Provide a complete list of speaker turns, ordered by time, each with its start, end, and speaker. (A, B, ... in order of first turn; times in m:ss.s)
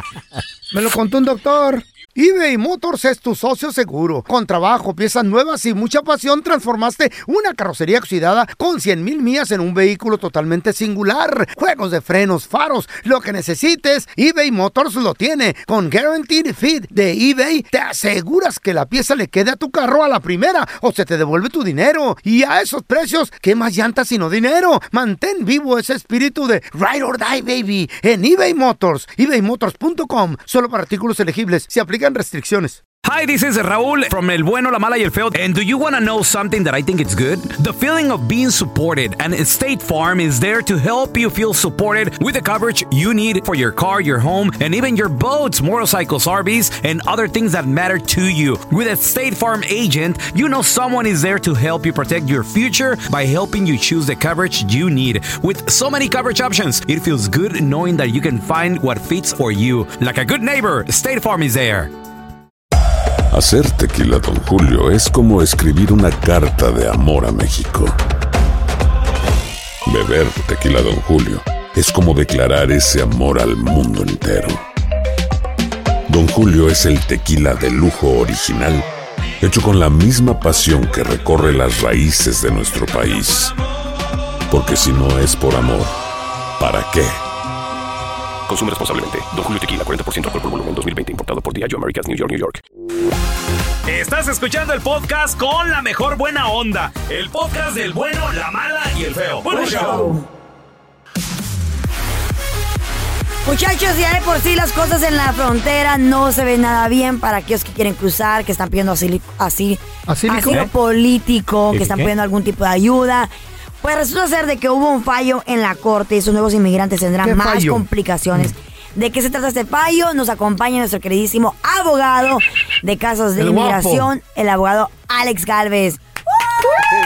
0:00.7-0:32.8 A
0:33.0-1:01.9 B
1:03.3-1:08.0 C
1:09.9-1:14.6 C
1:16.1-1:18.9 C
1:19.4-1:23.5 C
1:24.5-1:25.9 C
1:26.6-1:27.2 C
1:28.5-1:32.6 D
1:33.9-1:40.1 B
1:39.5-1:40.2 E
1:43.4-1:53.3 E
1:50.1-1:50.6 A
1:51.7-1:52.1 B
1:53.8-2:06.0 E
1:57.2-1:57.9 A
2:03.4-2:04.1 A